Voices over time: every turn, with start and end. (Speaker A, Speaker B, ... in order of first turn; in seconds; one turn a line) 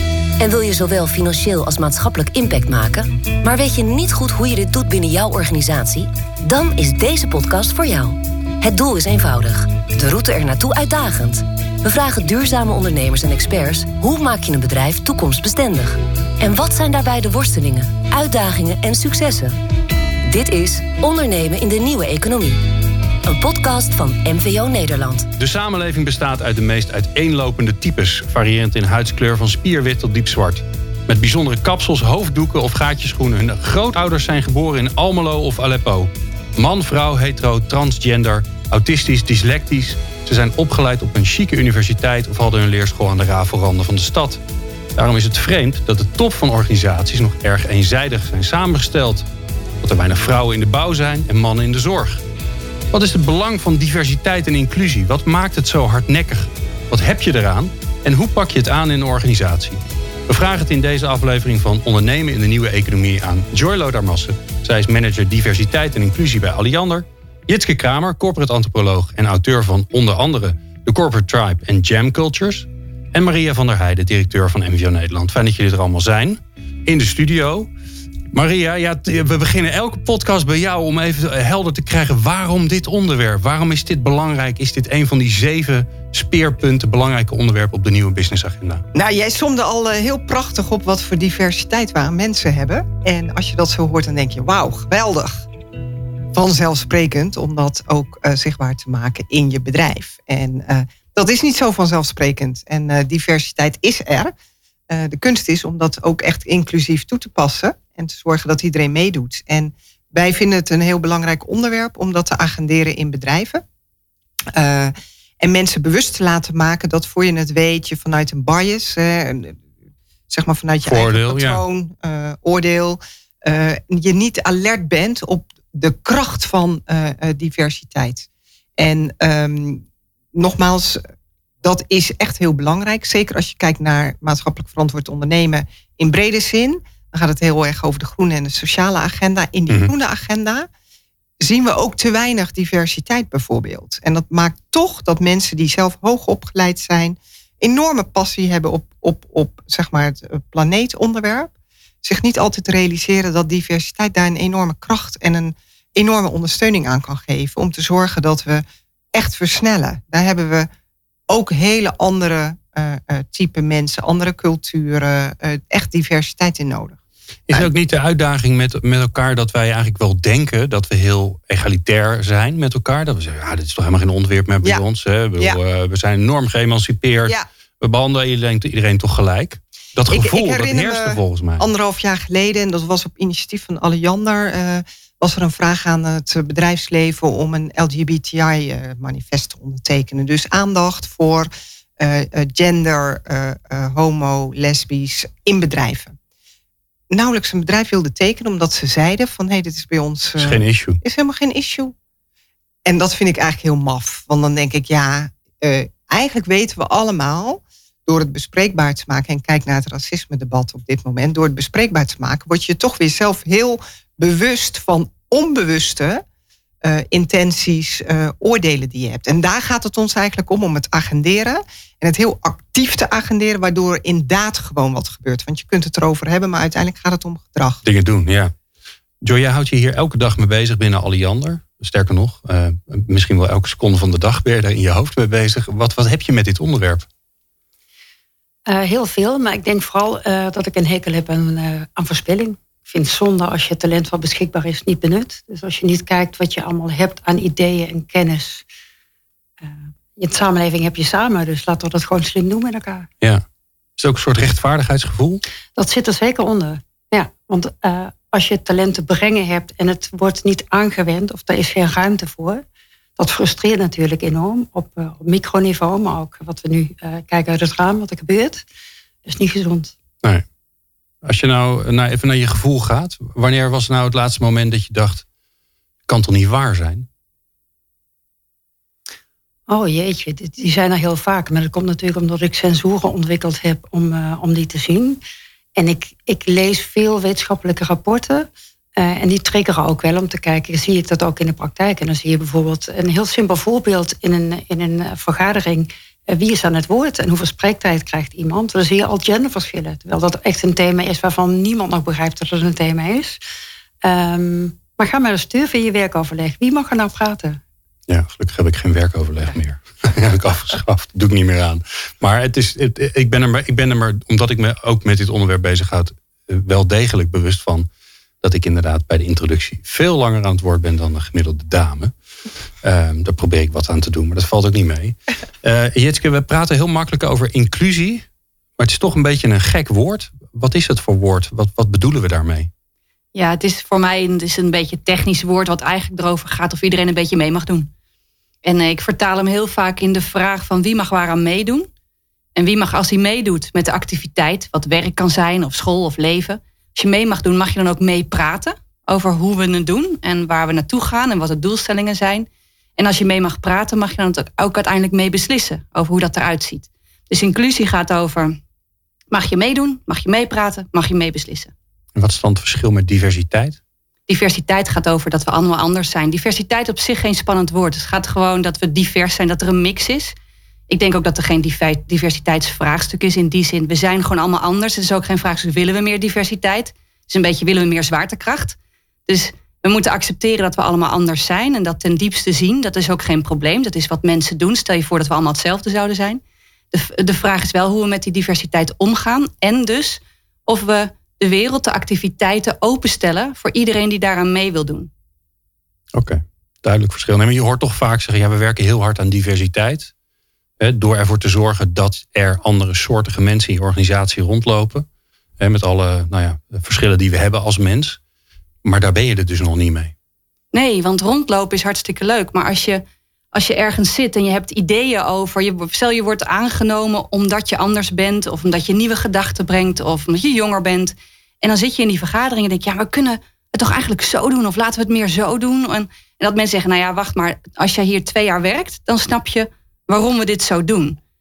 Speaker A: 0.4-19.6
Speaker A: 20.3-22.6
Speaker A: 23.3-25.3
Speaker B: 25.4-44.4
Speaker B: 45.0-49.2
Speaker B: 49.8-52.2
Speaker B: 52.9-77.7
Speaker B: 78.3-88.8
Speaker C: 88.9-95.5
Speaker C: 96.3-104.3
Speaker C: 104.9-113.6
Speaker C: 114.5-119.6
Speaker C: 120.3-129.8
Speaker B: 120.8-121.6
Speaker C: 130.3-131.0
Speaker C: 131.6-140.7
Speaker C: 141.4-151.5
Speaker C: 152.0-160.7
Speaker C: 161.3-167.0
Speaker B: 167.5-181.7
Speaker C: 180.1-196.2
Speaker C: 197.1-201.9
Speaker B: 200.4-201.0
Speaker C: 202.9-216.2
Speaker C: 216.8-227.8
Speaker B: 227.8-228.5
Speaker B: 229.2-237.1
Speaker D: 238.7-248.7
Speaker D: 249.6-253.1
Speaker B: 254.0-255.4
Speaker D: 255.8-262.6
Speaker D: 263.2-268.6
Speaker D: 269.2-269.9
Speaker B: 271.2-275.2
Speaker B: 276.1-277.1
Speaker D: 279.7-285.2
Speaker D: 285.8-303.4
Speaker D: 304.0-307.6
Speaker B: 308.1-317.9
Speaker B: 318.4-322.1
Speaker B: 322.8-328.3
Speaker B: 328.8-332.7
Speaker E: 333.3-337.9
Speaker E: 338.6-341.9
Speaker E: 342.6-358.6
Speaker E: 359.3-361.7
Speaker B: 362.2-363.8
Speaker E: 364.3-370.3
Speaker E: 370.9-386.4
Speaker E: 386.9-395.1
Speaker B: 396.1-400.1
Speaker B: 400.8-405.1
Speaker B: 405.6-408.2
Speaker B: 408.9-410.1
Speaker E: 410.7-431.2